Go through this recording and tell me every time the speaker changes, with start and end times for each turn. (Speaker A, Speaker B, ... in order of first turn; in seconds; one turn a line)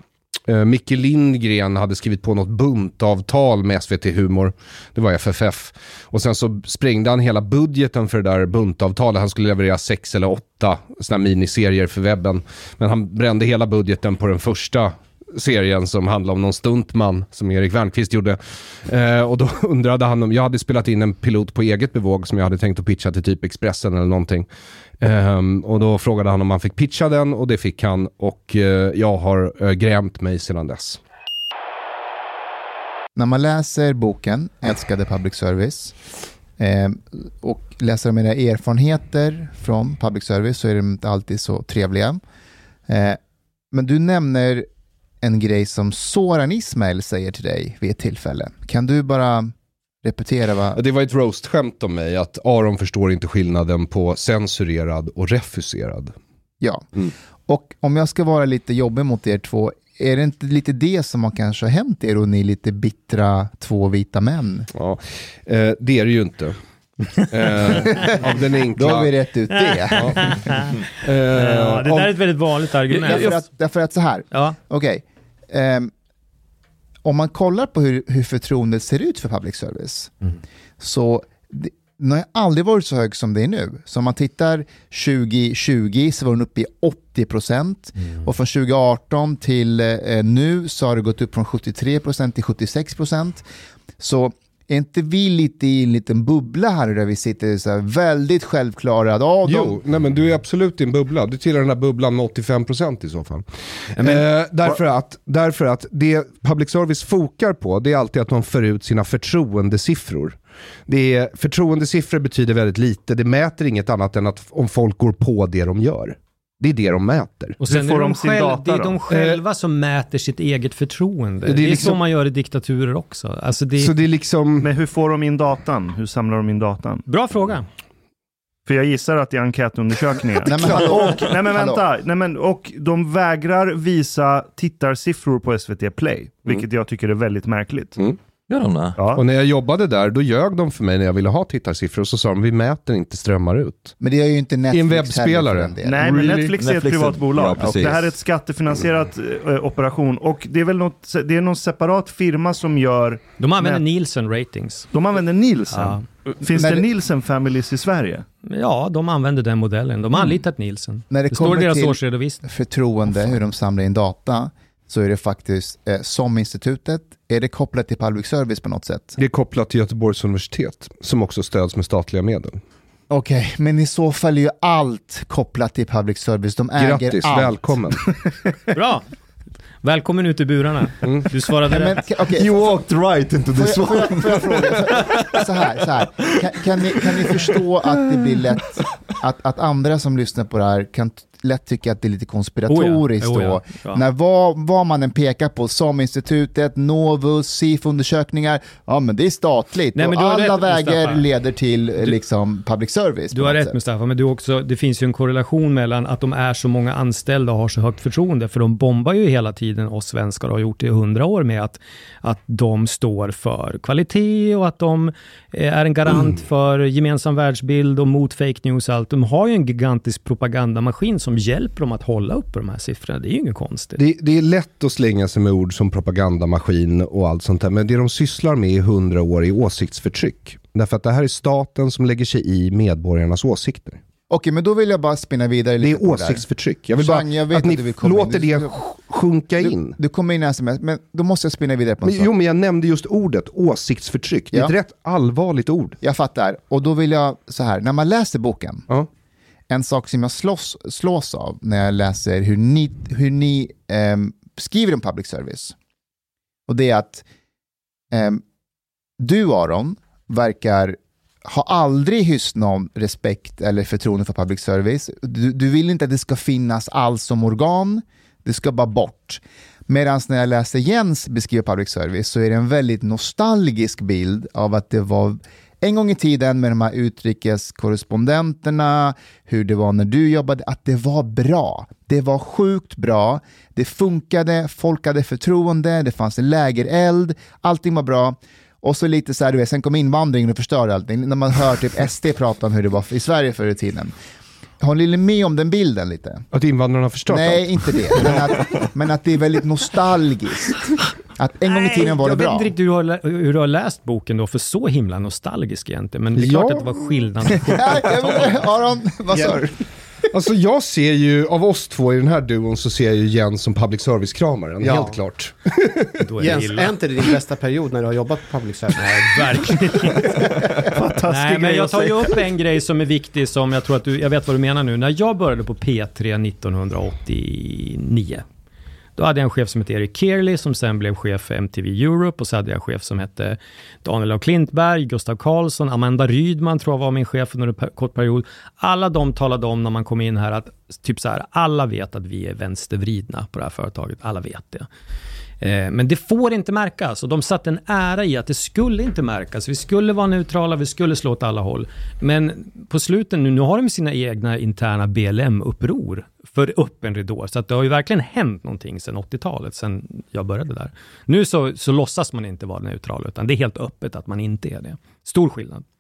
Speaker A: 0.5-24.5
Speaker A: 25.0-31.0
Speaker B: 33.1-36.0
Speaker B: 36.6-42.2
Speaker B: 42.9-43.2
Speaker B: 43.7-44.7
Speaker B: 45.2-50.8
Speaker A: 50.7-56.1
Speaker B: 56.6-56.9
Speaker B: 57.5-64.7
Speaker A: 64.7-66.6
Speaker A: 67.3-69.1
Speaker B: 68.8-70.4
Speaker C: 69.6-70.7
Speaker A: 70.0-70.3
Speaker A: 71.0-72.2
Speaker C: 71.3-73.4
Speaker B: 73.0-75.9
Speaker C: 74.3-74.6
Speaker B: 77.0-80.2
Speaker B: 80.8-93.5
Speaker B: 94.0-99.8
Speaker A: 99.5-117.6
Speaker C: 117.6-123.9
Speaker D: 117.6-119.0
Speaker A: 119.1-119.4
Speaker A: 121.5-122.0
Speaker A: 123.8-124.7
Speaker D: 124.6-127.0
Speaker C: 127.1-127.7
Speaker D: 128.7-138.0
Speaker B: 130.4-131.8
Speaker E: 138.5-139.0
Speaker D: 138.9-139.2
Speaker A: 139.2-144.0
Speaker B: 144.0-146.1
Speaker A: 144.7-146.5
Speaker D: 145.8-153.8
Speaker E: 146.6-148.1
Speaker C: 153.4-154.9
Speaker D: 154.9-158.2
Speaker C: 155.7-156.0
Speaker B: 156.6-156.8
Speaker C: 158.5-162.4
Speaker B: 161.1-169.2
Speaker A: 169.2-172.6
Speaker B: 173.1-178.2
Speaker A: 176.8-178.1
Speaker C: 178.7-179.1
Speaker C: 179.8-182.0
Speaker B: 181.7-182.6
Speaker E: 182.4-185.4
Speaker B: 183.6-203.8
Speaker E: 186.9-187.6
Speaker E: 188.1-188.8
Speaker C: 192.7-194.0
Speaker C: 199.9-201.2
Speaker C: 203.3-224.0
Speaker A: 224.0-234.0
Speaker B: 234.3-238.8
Speaker A: 235.8-240.0
Speaker B: 239.6-242.3
Speaker A: 242.1-246.0
Speaker B: 246.0-248.9
Speaker B: 249.7-255.8
Speaker B: 256.7-257.2
Speaker B: 258.1-258.4
Speaker B: 259.2-294.1
Speaker B: 294.8-296.5
Speaker A: 296.5-298.5
Speaker B: 297.3-302.7
Speaker C: 301.7-308.5
Speaker A: 306.4-306.9
Speaker B: 307.6-309.8
Speaker A: 310.3-316.2
Speaker F: 314.8-315.2
Speaker C: 316.2-316.9
Speaker F: 316.4-319.7
Speaker C: 318.9-320.4
Speaker D: 320.8-322.3
Speaker C: 321.3-328.4
Speaker C: 329.2-344.9
Speaker C: 345.6-365.9